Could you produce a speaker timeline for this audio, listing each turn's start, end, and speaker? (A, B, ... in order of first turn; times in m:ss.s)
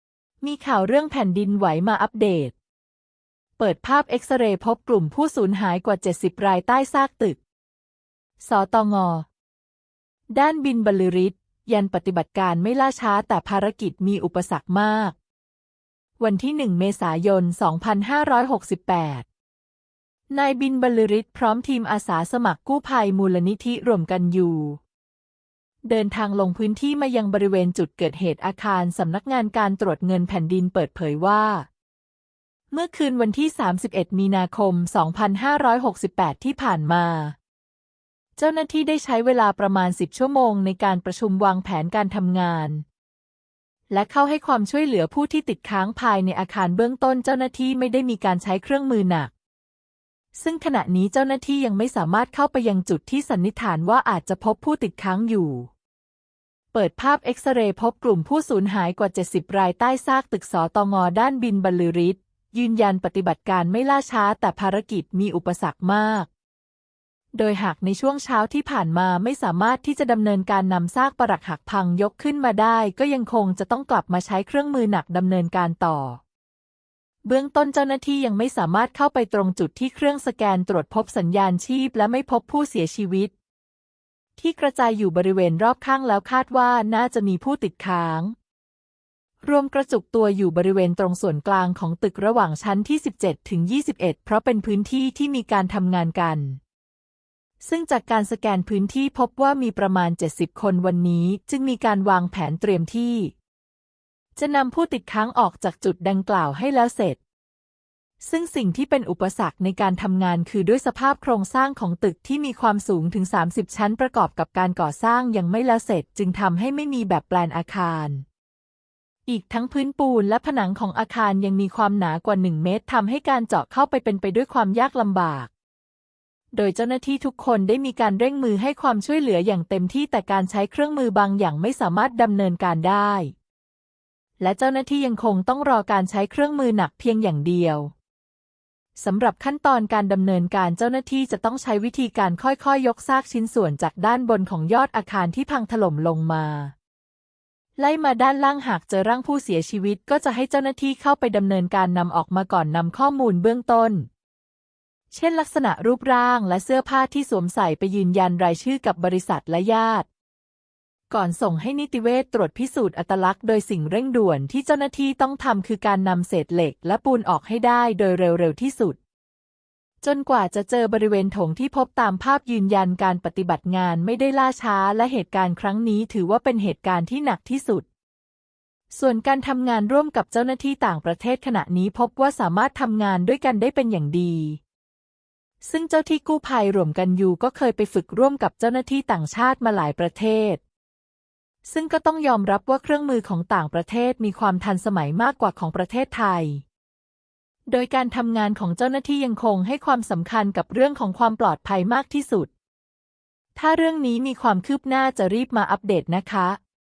0:00.4-0:02.5 A
0:03.6-0:07.4 A
0:08.4-0:09.2 A
0:10.3-0:15.1 A
0:16.2-0:19.2 A
0:20.3-0:24.8 A
0:25.8-0:31.7 A
0:32.7-0:37.4 A
0:38.4-0:42.8 A
0:43.9-0:49.3 A
0:50.3-0:55.7 A
0:56.7-1:06.3 A
1:07.3-1:16.2 A
1:17.2-1:23.3 A
1:24.4-1:28.3 A
1:29.4-1:36.6 A
1:37.6-1:43.3 A
1:44.4-1:47.2 A
1:48.2-1:58.2 A
1:59.2-2:05.5 A
2:06.5-2:13.3 A
2:14.4-2:17.9 A
2:19.0-2:26.7 A
2:27.8-2:34.1 A
2:35.1-2:40.1 A
2:41.1-2:49.0 A
2:50.0-2:57.8 A
2:58.9-3:04.6 A
3:05.6-3:10.6 A
3:11.6-3:16.6 A
3:17.7-3:22.5 A
3:23.6-3:26.6 A